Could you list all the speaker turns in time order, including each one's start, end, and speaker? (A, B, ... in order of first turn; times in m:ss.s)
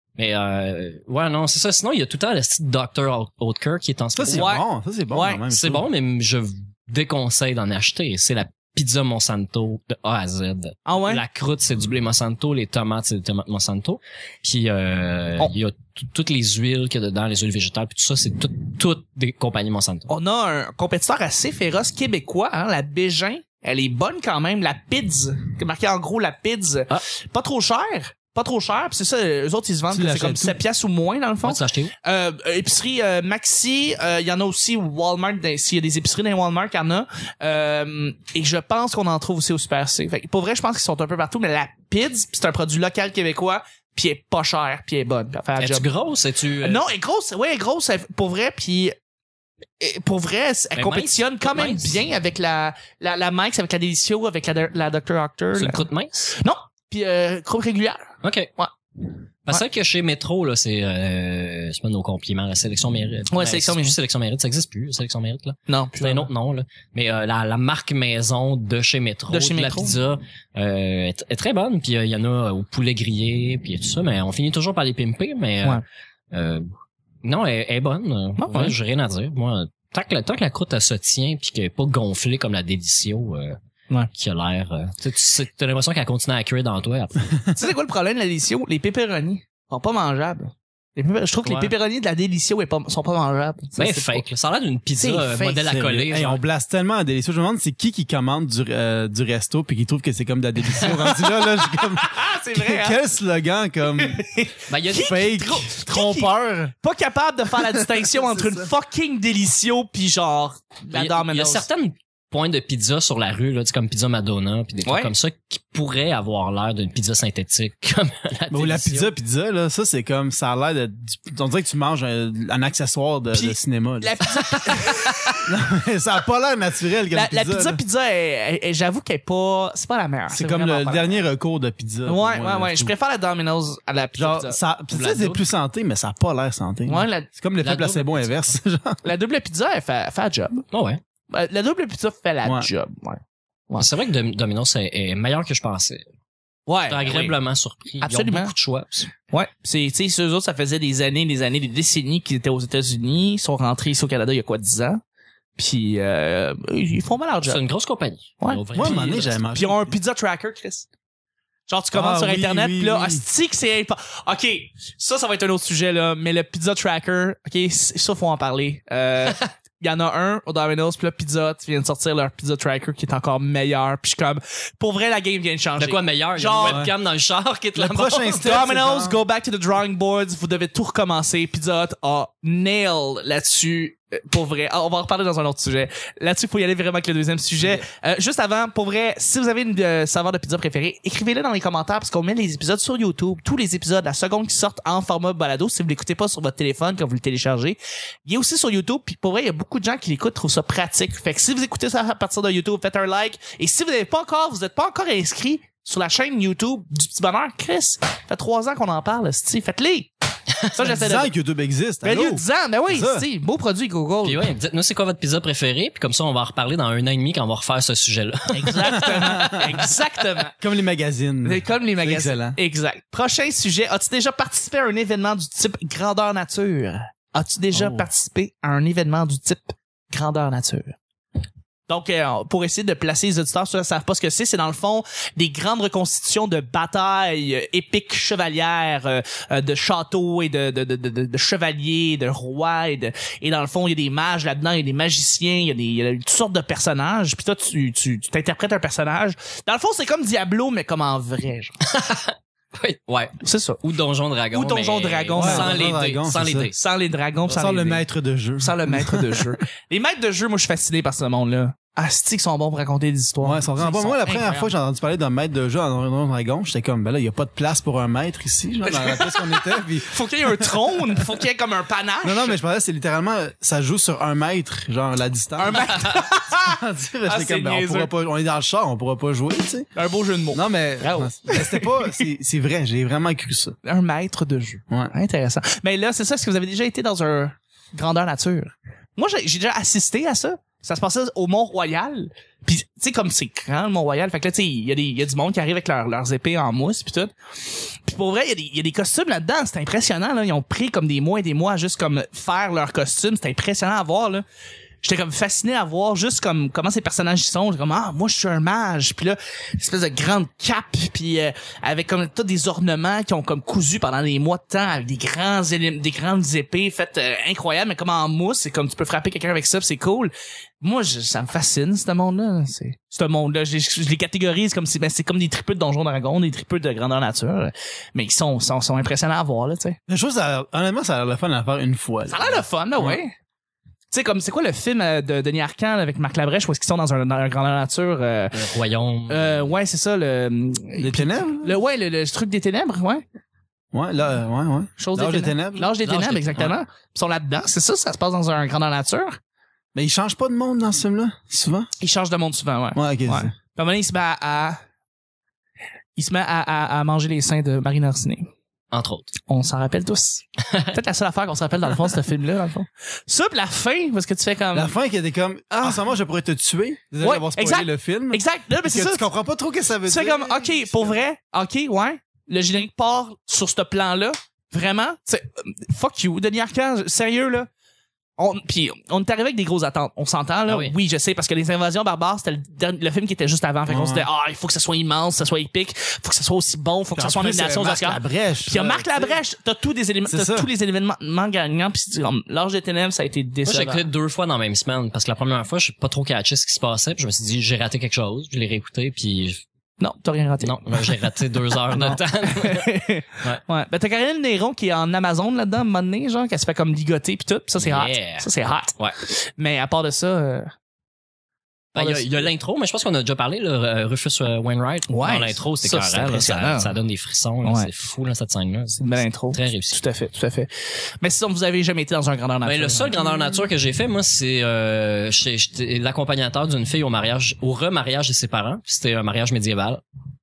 0:00.2-0:04.5 A
0:04.1-0:05.9 B
0:04.2-0:05.4 C
0:05.5-0:20.1 A
0:10.8-0:11.2 C
0:20.1-0:45.9 C
0:29.9-0:30.6 B
0:31.4-0:31.9 A
0:45.6-0:46.8 A
0:46.6-0:48.9 C
0:49.8-0:58.7 C
0:50.7-0:52.0 A
0:55.5-0:56.3 A
0:58.2-0:58.5 A
0:59.5-1:16.7 A
1:03.3-1:04.0 C
1:05.7-1:06.3 C
1:09.3-1:10.0 C
1:17.2-1:23.6 A
1:18.4-1:18.8 C
1:24.1-1:27.3 A
1:27.5-1:34.2 C
1:31.4-1:31.7 A
1:33.8-1:36.4 A
1:35.0-1:35.7 C
1:35.6-1:44.2 B
1:40.8-1:43.0 C
1:43.9-1:51.6 C
1:44.7-1:45.2 A
1:44.9-1:46.7 B
1:47.6-1:48.7 B
1:50.9-1:59.1 A
1:54.8-1:55.1 C
1:58.5-2:04.2 B
2:03.3-2:05.4 C
2:05.4-2:07.8 B
2:07.1-2:11.3 C
2:10.3-2:12.9 B
2:12.0-2:14.6 C
2:14.2-2:19.0 B
2:14.9-2:15.4 A
2:16.9-2:17.3 C
2:17.6-2:18.4 A
2:19.0-2:20.6 C
2:20.7-2:21.0 A
2:21.3-2:23.9 C
2:22.4-2:22.7 B
2:23.8-2:26.0 A
2:26.7-2:27.4 C
2:26.9-2:29.1 A
2:28.0-2:28.5 C
2:29.2-2:35.0 C
2:35.6-2:37.6 C
2:37.4-2:39.4 A
2:38.4-2:40.8 C
2:38.7-2:40.0 B
2:41.7-2:56.8 C
2:41.9-2:43.2 B
2:55.8-2:58.4 A
2:56.6-2:56.9 B
2:57.7-2:59.2 B
2:58.3-3:31.3 C
3:30.8-3:33.2 B
3:32.0-3:34.5 C
3:34.2-3:39.8 A
3:38.5-3:40.6 C
3:38.9-3:39.5 B
3:40.6-3:42.6 B
3:41.4-3:51.0 C
3:47.7-3:48.1 B
3:51.9-4:11.8 C
4:11.9-4:16.8 A
4:13.4-4:13.8 C
4:14.5-4:15.8 C
4:15.4-4:16.7 B
4:16.8-4:18.0 C
4:17.5-4:19.4 B
4:18.6-4:24.7 C
4:23.4-4:31.2 B
4:28.8-4:32.6 C
4:32.2-4:39.9 B
4:35.6-4:38.1 C
4:40.0-4:42.2 C
4:40.5-4:43.8 B
4:43.8-5:04.4 C
5:05.0-5:30.0 C
5:30.1-5:33.2 B
5:32.3-5:33.3 C
5:34.1-5:38.6 C
5:38.5-5:39.6 A
5:39.3-5:43.2 C
5:41.0-5:41.8 B
5:43.9-5:46.0 B
5:45.0-5:49.4 C
5:46.0-5:46.8 A
5:49.9-5:51.9 B
5:52.0-5:54.8 C
5:52.9-5:53.5 B
5:56.2-5:58.5 C
5:58.9-5:59.3 A
5:59.5-6:04.9 C
6:04.7-6:11.2 B
6:05.7-6:06.1 C
6:07.2-6:09.3 C
6:10.0-6:17.7 C
6:18.4-6:34.0 C
6:20.7-6:20.9 A
6:23.9-6:24.2 B
6:27.1-6:29.4 B
6:30.3-6:30.7 B
6:33.6-6:39.6 A
6:40.0-6:50.7 C
6:40.6-6:43.6 A
6:47.7-6:49.2 A
6:51.9-7:00.0 A
6:51.9-6:52.5 C
6:55.1-6:56.9 C
6:57.6-6:57.9 C
6:59.0-7:00.7 C
7:01.2-7:03.2 C
7:02.6-7:10.0 A